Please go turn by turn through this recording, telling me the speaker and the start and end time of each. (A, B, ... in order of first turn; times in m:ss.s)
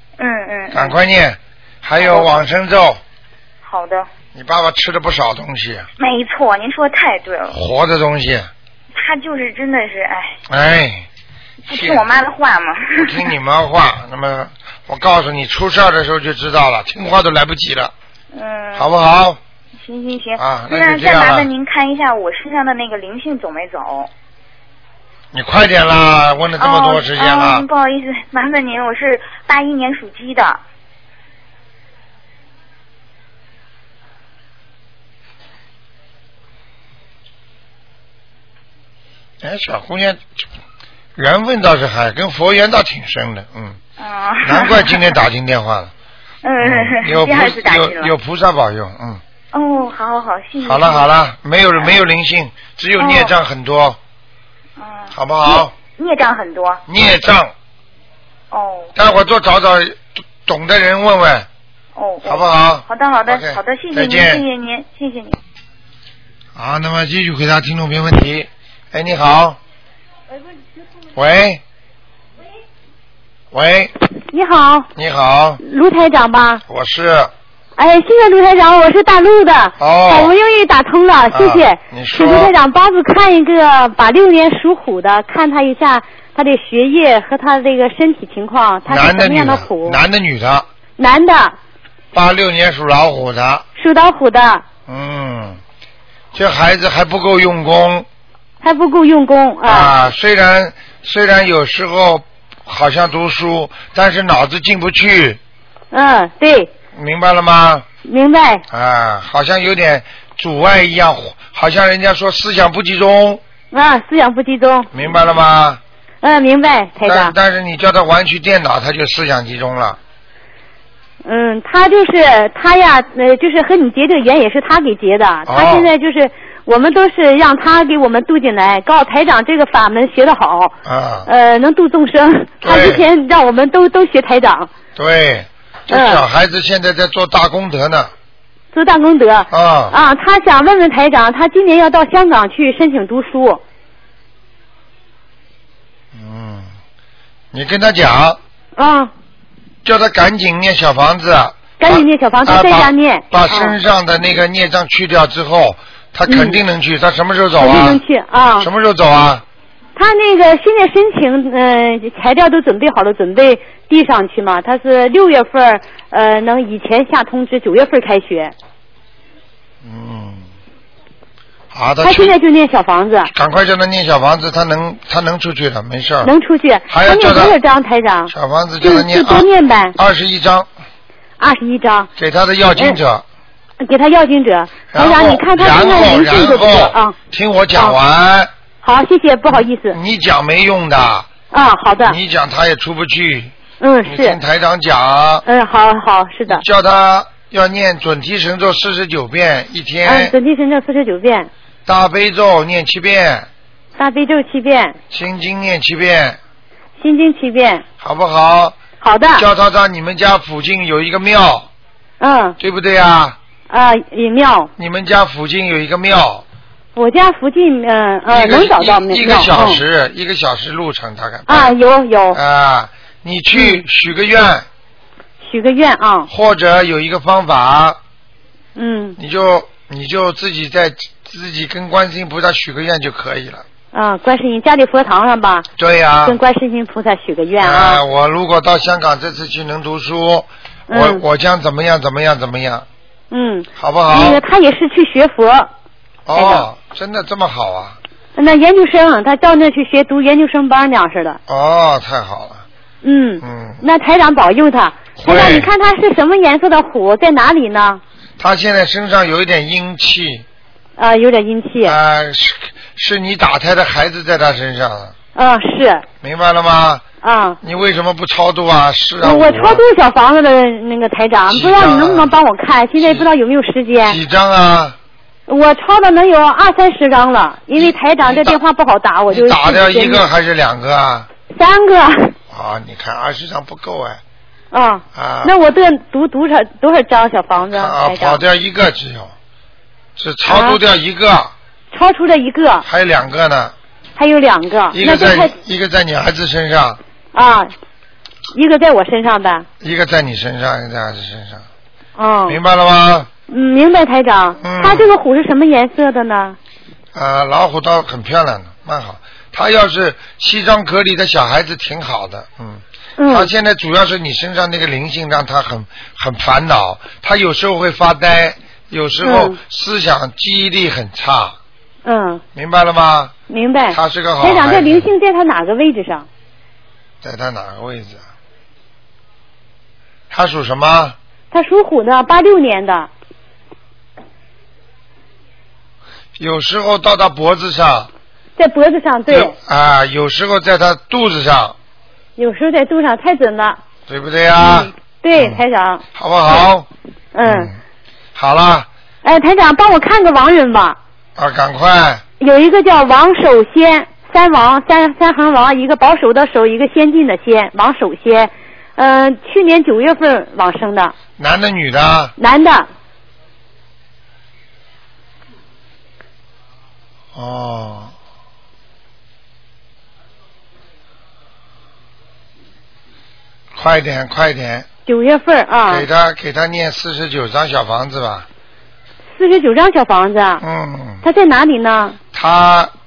0:00.2-0:01.0 A
0:00.7-0:03.0 B
0:02.0-0:02.5 A
0:03.6-0:04.1 A
0:04.3-0:05.9 B
0:06.0-0:07.6 A
0:07.5-0:08.5 B
0:08.9-0:10.4 A
0:10.5-0:11.1 B
0:11.7-0:13.3 A
0:11.7-0:12.1 B
0:13.0-0:17.9 B
0:18.3-0:18.9 A
0:18.8-0:19.4 B
0:19.8-0:24.1 A
0:20.4-0:21.5 B
0:25.3-0:27.7 B
0:26.6-0:30.6 A
0:39.4-0:40.4 B
0:41.2-0:43.8 B
0:44.0-0:45.2 A
0:44.4-0:45.9 B
0:46.4-0:48.1 A
0:46.6-0:49.2 B
0:49.5-0:51.1 A
0:50.6-0:54.0 B
0:53.0-0:53.3 A
0:54.8-0:56.8 A
0:55.1-0:55.7 B
0:56.9-0:57.5 B
0:58.5-0:59.0 A
0:59.0-1:01.5 B
1:02.0-1:05.4 A
1:02.2-1:04.4 B
1:06.6-1:09.6 B
1:11.2-1:11.6 B
1:13.5-1:13.9 B
1:14.3-1:14.9 C
1:15.0-1:15.6 B
1:15.6-1:16.6 C
1:16.7-1:17.3 B
1:17.8-1:30.0 C
1:19.8-1:20.3 B
1:21.3-1:22.5 B
1:28.9-1:30.7 B
1:31.0-1:31.6 C
1:32.1-1:33.6 B
1:33.8-1:34.6 C
1:34.9-1:35.6 B
1:36.3-1:38.1 B
1:38.6-1:39.9 C
1:39.6-1:45.4 B
1:45.9-1:46.7 C
1:47.0-1:47.9 B
1:48.0-1:48.6 C
1:48.7-1:53.4 B
1:53.7-1:54.9 C
1:54.9-1:55.8 B
1:56.2-1:57.3 C
1:57.0-2:00.0 B
2:01.2-2:10.8 C
2:05.5-2:05.9 B
2:10.8-2:11.3 B
2:11.3-2:14.7 C
2:12.6-2:13.1 B
2:15.0-2:18.1 B
2:15.9-2:16.2 C
2:18.7-2:23.6 C
2:19.5-2:20.0 B
2:26.1-2:26.7 B
2:27.5-2:28.4 B
2:28.8-2:29.1 C
2:29.8-2:38.0 B
2:31.8-2:33.8 C
2:36.3-2:36.6 C
2:37.6-2:38.7 C
2:38.6-2:39.4 B
2:40.0-2:48.5 C
2:49.8-2:50.5 B
2:51.7-2:52.4 B
2:52.0-2:53.3 C
2:53.3-2:56.3 B
2:56.2-3:00.0 C
2:56.9-2:57.6 B
2:58.3-3:00.7 B
3:01.4-3:02.1 C
3:02.2-3:03.2 B
3:03.8-3:07.2 C
3:04.9-3:08.5 B
3:08.8-3:10.0 C
3:09.5-3:11.3 B
3:11.5-3:12.2 C
3:12.0-3:13.5 B
3:13.8-3:14.4 C
3:14.0-3:15.4 B
3:15.5-3:16.6 C
3:16.5-3:20.4 B
3:20.0-3:21.5 C
3:21.9-3:23.5 B
3:24.0-3:25.0 C
3:25.1-3:26.4 B
3:27.0-3:27.8 C
3:28.0-3:28.8 B
3:29.0-3:29.5 C
3:29.4-3:31.7 B
3:32.2-3:32.6 C
3:32.6-3:33.4 B
3:33.7-3:34.7 C
3:34.8-3:36.4 B
3:37.0-3:39.8 C
3:38.3-3:41.8 B
3:41.5-3:42.4 C
3:42.3-3:44.7 B
3:43.5-3:43.8 C
3:45.4-3:46.3 C
3:46.3-3:48.0 B
3:48.8-3:49.2 C
3:49.2-3:53.6 B
3:53.9-3:55.7 C
3:55.8-3:56.4 B
3:56.3-3:58.0 C
3:57.6-4:02.9 B
4:00.9-4:01.2 C
4:03.3-4:05.7 C
4:03.8-4:04.4 B
4:06.3-4:08.0 B
4:06.4-4:06.7 C
4:08.4-4:11.4 C
4:11.5-4:12.6 B
4:13.0-4:18.0 C
4:13.4-4:13.8 B
4:15.2-4:15.7 B
4:18.4-4:20.4 B
4:21.0-4:22.0 C
4:21.8-4:25.1 B
4:25.4-4:26.0 C
4:26.2-4:27.0 B
4:27.2-4:27.6 C
4:27.6-4:29.8 B
4:29.2-4:34.2 C
4:31.5-4:32.4 B
4:33.0-4:33.3 B
4:34.0-4:35.0 B
4:35.5-4:40.2 C
4:37.8-4:38.6 B
4:39.3-4:41.3 B
4:41.5-4:42.4 C
4:42.5-4:44.2 B
4:44.7-4:48.4 C
4:45.1-4:45.5 B
4:47.7-4:49.3 B
4:50.2-4:51.5 B
4:50.4-4:50.8 C
4:51.9-4:52.9 C
4:52.9-4:53.7 B
4:54.2-4:55.5 C
4:54.9-4:57.0 B
4:57.3-4:57.7 C
4:58.5-4:59.7 C
4:59.8-5:01.6 B
5:02.2-5:02.6 C
5:02.5-5:03.3 B
5:03.5-5:06.6 C
5:04.6-5:05.1 B
5:07.1-5:21.6 B
5:13.2-5:13.5 C
5:19.2-5:19.6 C
5:22.0-5:22.4 C
5:22.6-5:23.3 B
5:23.5-5:26.3 C
5:23.9-5:25.1 B
5:27.2-5:28.2 B
5:30.3-5:31.2 B
5:31.5-5:33.1 C
5:36.4-5:38.1 B
5:38.6-5:39.5 C
5:39.3-5:41.8 B
5:42.4-5:43.8 C
5:44.1-5:45.6 B
5:44.7-5:46.0 C
5:46.2-5:46.9 B
5:47.3-5:47.7 C
5:47.4-5:47.8 B
5:48.4-5:48.9 B
5:49.2-5:51.0 C
5:51.4-5:52.2 B
5:52.4-6:01.1 C
6:01.4-6:02.3 B
6:02.4-6:02.9 C
6:07.4-6:08.1 B
6:13.8-6:14.9 B
6:15.1-6:16.1 C
6:15.9-6:18.5 B
6:19.4-6:20.6 C
6:20.6-6:21.2 B
6:21.2-6:22.2 C
6:22.3-6:22.9 B